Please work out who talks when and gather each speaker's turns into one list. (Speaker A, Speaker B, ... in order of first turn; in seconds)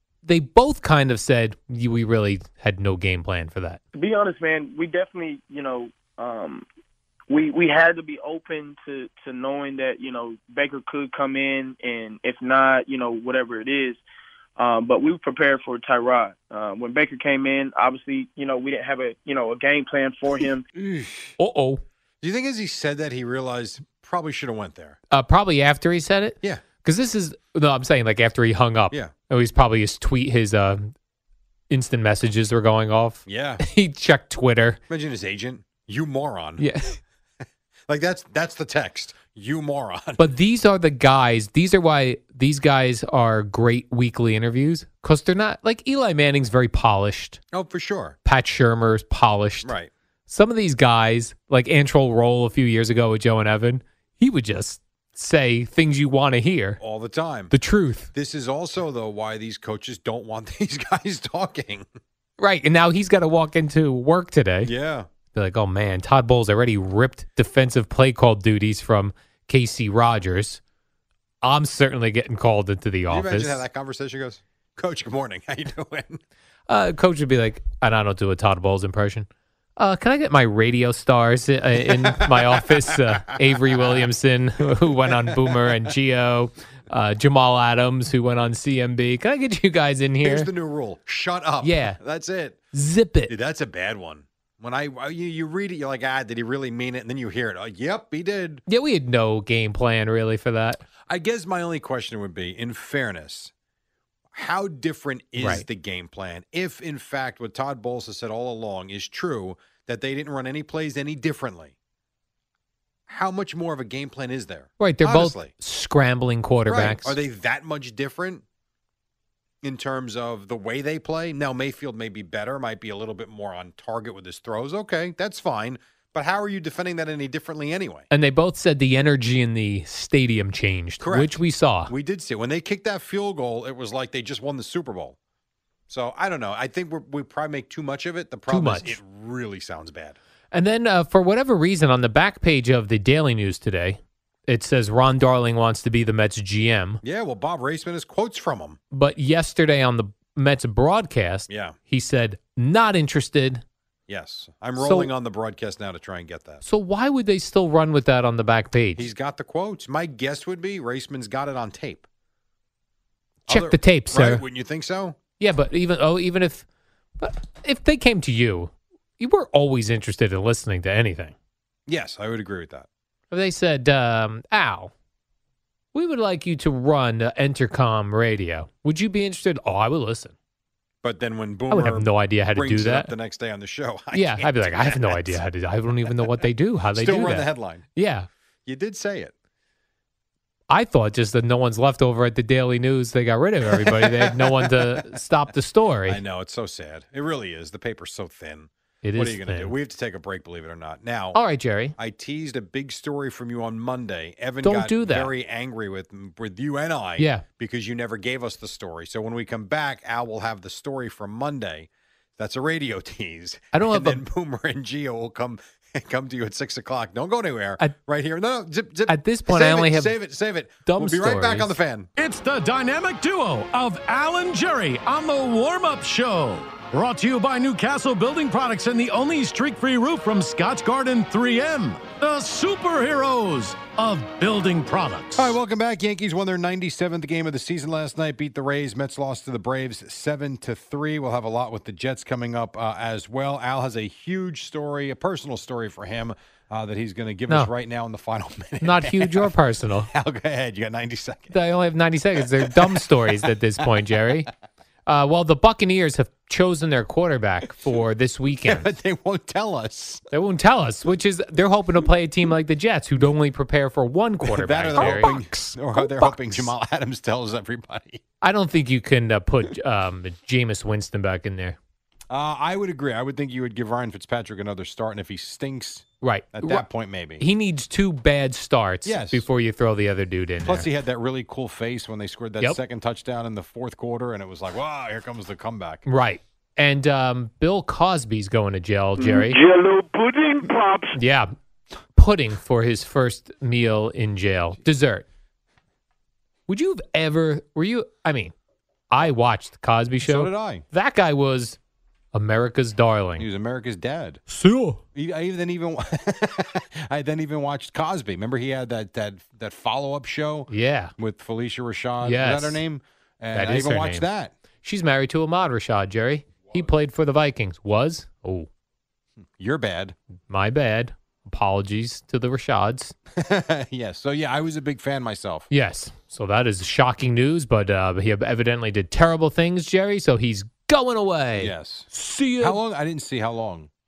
Speaker A: 0.2-3.8, 21.4-21.8, 25.1-30.9, 31.7-34.8, 36.6-37.0, 40.2-47.4, 48.2-49.7, 50.3-56.8, 57.5-58.1, 62.4-64.7, 65.3-70.6, 71.4-73.6, 76.7-90.5, 91.6-92.0, 92.7-93.3, 98.7-100.8, 105.4-105.7, 114.8-117.2, 128.1-131.9, 138.5-139.0, 140.5-147.0, 148.9-153.6, 154.8-155.1, 156.6-159.1, 163.5-164.4, 165.4-166.7, 167.2-171.3, 173.3-174.9, 175.9-180.3, 181.7-183.1, 184.1-188.3, 190.7-196.2, 199.0-199.8, 201.3-201.9, 204.6-205.3, 207.2-207.4, 213.7-214.2, 219.1-220.2, 220.9-221.8, 248.8-250.1, 251.5-254.5, 255.1-258.9, 260.3-266.7, 268.4-271.8, 276.2-276.9, 277.4-280.9, 286.1-289.7, 291.1-291.5, 292.1-295.2, 296.7-298.5, 299.1-301.8, 302.3-303.5, 304.5-305.0, 310.7-311.1, 312.2-312.8, 313.5-314.3, 314.8-318.7, 320.5-323.1, 325.7-332.8
Speaker B: 4.0-6.7, 7.3-14.0, 14.6-20.7
Speaker C: 20.8-21.4, 22.2-25.0, 33.3-33.6, 34.9-36.6, 37.9-40.3, 47.5-48.2, 49.6-49.9, 56.8-57.5, 58.1-61.9, 64.6-65.1, 73.1-76.2, 81.8-84.1, 85.0-85.9, 90.2-92.6, 93.3-98.6, 101.0-103.5, 104.3-111.8, 113.1-115.5, 116.7-118.4, 119.6-128.1, 131.0-135.2, 135.9-140.2, 147.0-148.8, 151.5-151.8, 154.1-156.6, 158.9-162.1, 163.5-165.2, 171.9-172.9, 181.0-185.4, 186.9-187.9, 188.7-189.3, 193.7-195.1, 196.1-201.4, 202.0-222.1, 235.3-249.6, 250.1-251.6, 252.4-253.9, 258.6-260.2, 264.4-268.2, 272.3-277.5, 279.1-279.5, 280.6-286.0, 300.2-300.9, 303.4-304.4, 305.1-314.5, 319.6-320.2, 323.4-325.7, 331.6-333.9
Speaker D: 222.2-235.6